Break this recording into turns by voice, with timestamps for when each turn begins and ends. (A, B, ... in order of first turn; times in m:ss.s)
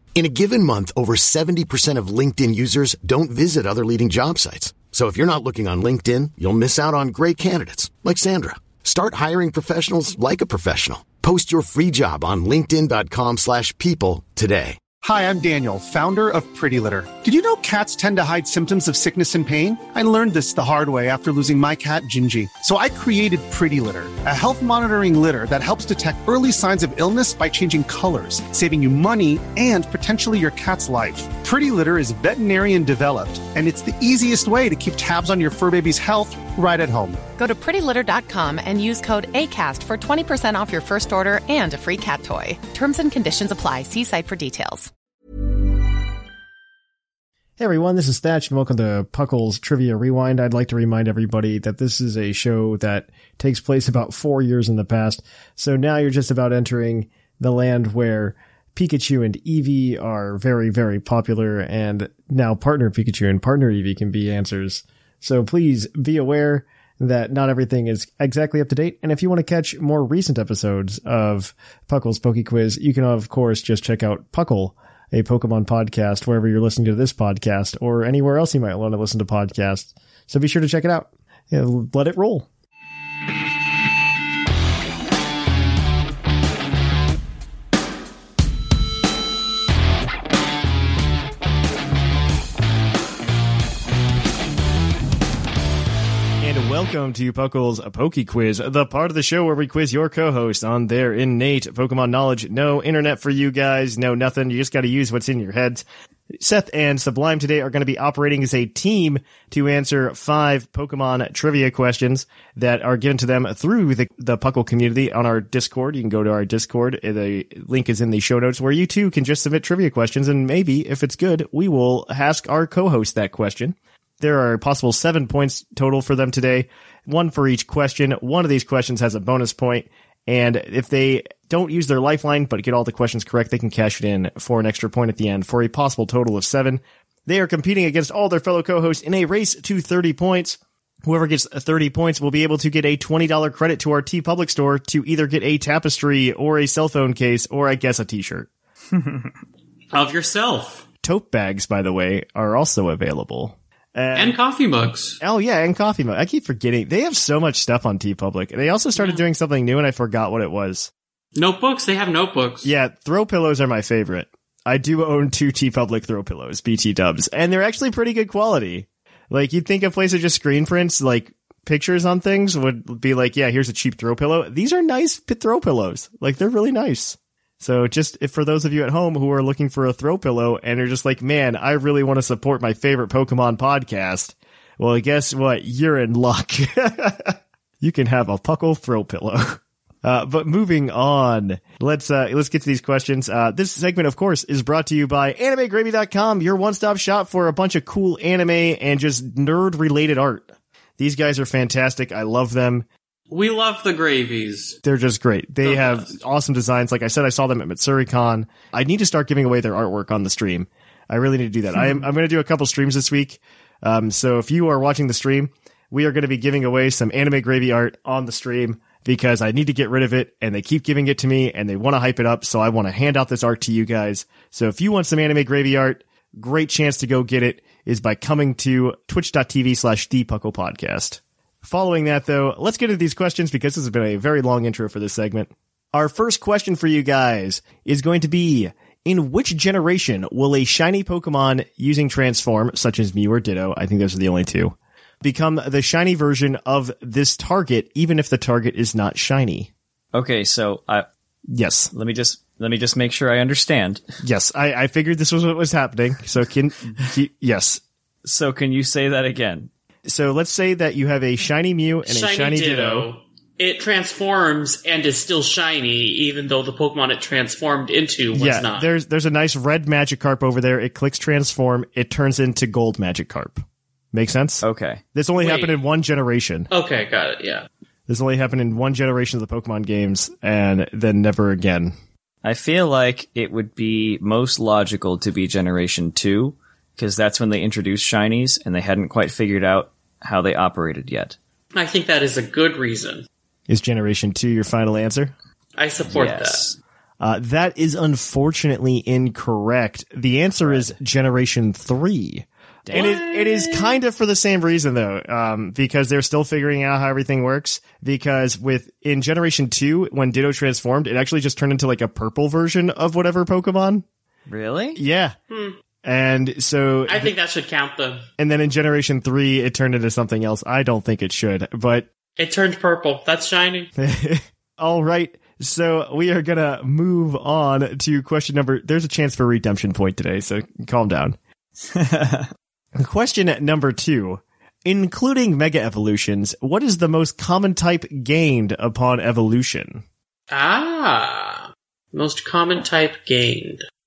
0:00.1-0:14.8 A
0:15.0-0:37.2 B
0:37.4-0:44.9 C
0:47.6-1:22.5 D
1:36.4-1:45.8 D
1:46.4-2:28.5 D
2:28.9-2:29.3 E
2:29.9-2:30.8 F
2:31.0-2:34.4 D
2:34.1-2:35.2 F
2:35.2-2:40.9 D
2:39.0-2:39.2 F
2:41.3-2:42.7 F
2:42.6-3:20.5 D
3:21.0-3:22.8 D
3:23.3-3:24.8 F
3:24.8-4:09.7 D
3:25.6-3:26.1 F
4:10.1-4:11.0 E
4:11.5-4:11.9 D
4:11.9-4:14.0 E
4:14.2-4:17.8 D
4:18.2-4:19.7 E
4:20.0-4:23.1 D
4:22.0-4:28.9 F
4:28.3-4:33.6 D
4:34.1-4:36.7 D
4:34.6-4:35.0 E
4:35.4-4:35.7 F
4:36.7-4:37.7 F
4:38.1-4:41.9 D
4:42.4-4:51.4 E
4:51.7-4:53.2 F
4:53.7-4:55.3 D
4:55.8-4:56.7 F
4:56.1-4:56.7 E
4:57.2-5:14.0 D
5:00.6-5:00.9 E
5:02.8-5:03.1 E
5:02.9-5:04.0 F
5:14.5-5:15.0 E
5:15.0-5:15.3 D
5:15.5-5:15.8 F
5:16.0-5:17.3 D
5:17.1-5:18.2 F
5:18.4-5:22.1 D
5:22.4-5:23.9 F
5:24.0-5:31.4 D
5:31.9-5:32.5 E
5:32.9-5:40.0 D
5:40.5-5:43.8 F